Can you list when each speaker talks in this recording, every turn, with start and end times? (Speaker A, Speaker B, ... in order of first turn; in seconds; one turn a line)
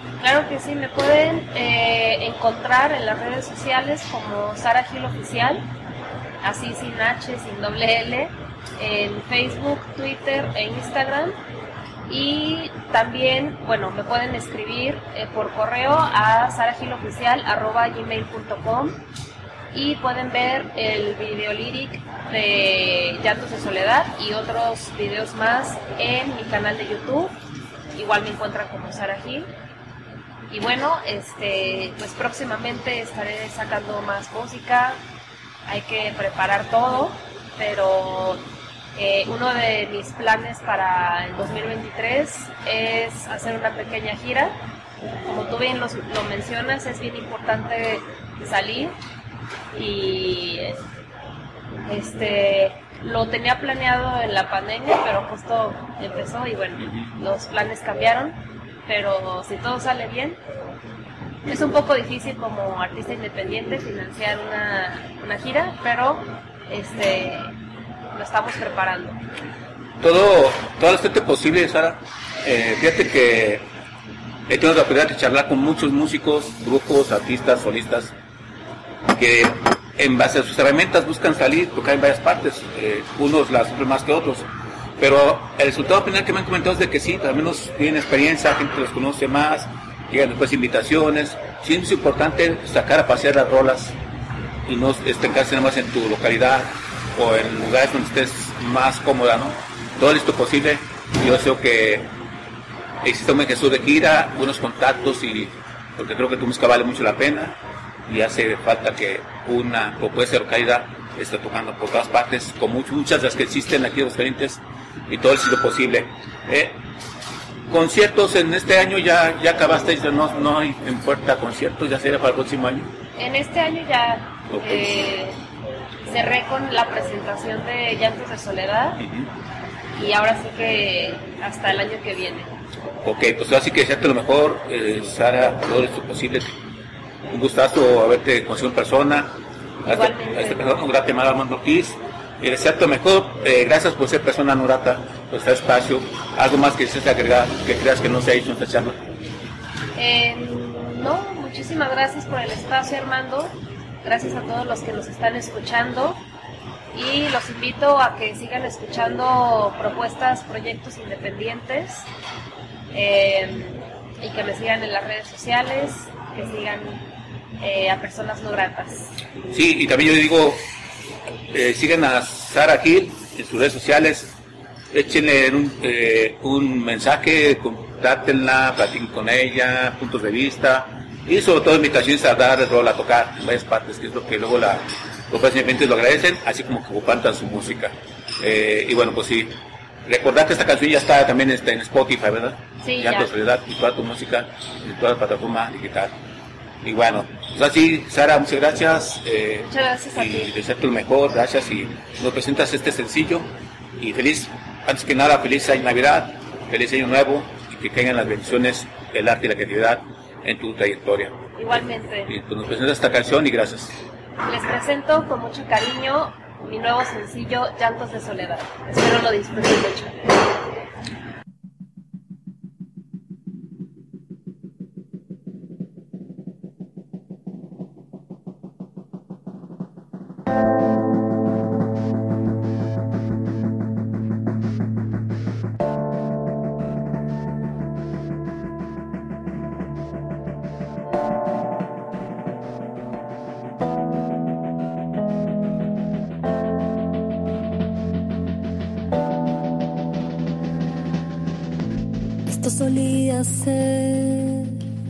Speaker A: 0.2-5.7
Speaker A: 6.4-11.4
Speaker A: 12.1-19.0
Speaker A: 19.7-27.3
Speaker A: 27.9-29.5
Speaker A: 30.5-35.0
Speaker A: 35.7-38.4
Speaker A: 39.0-44.6
Speaker A: 45.3-48.9
Speaker A: 49.8-50.8
Speaker A: 51.9-60.4
Speaker A: 61.5-67.5
Speaker A: 68.1-69.2
Speaker B: 70.0-73.7
Speaker B: 74.5-78.1
Speaker B: 79.1-94.0
Speaker B: 94.7-102.1
Speaker B: 103.0-116.8
Speaker B: 117.7-122.9
Speaker A: 123.2-125.4
Speaker B: 124.5-124.9
Speaker A: 126.1-129.0
Speaker B: 129.0-129.3
Speaker A: 129.9-132.5
Speaker B: 133.0-136.6
Speaker B: 137.3-139.3
Speaker B: 139.8-149.0
Speaker A: 139.9-140.8
Speaker A: 150.0-156.2
Speaker A: 156.9-162.1
Speaker A: 162.9-167.1
Speaker A: 167.6-169.2
Speaker B: 169.5-170.6
Speaker B: 171.5-174.3
Speaker B: 174.9-196.1
Speaker A: 192.8-193.3
Speaker B: 196.8-211.4
Speaker A: 199.6-200.5
Speaker A: 211.6-212.3
Speaker B: 212.3-214.0
Speaker A: 214.5-220.5
Speaker C: 252.5-254.8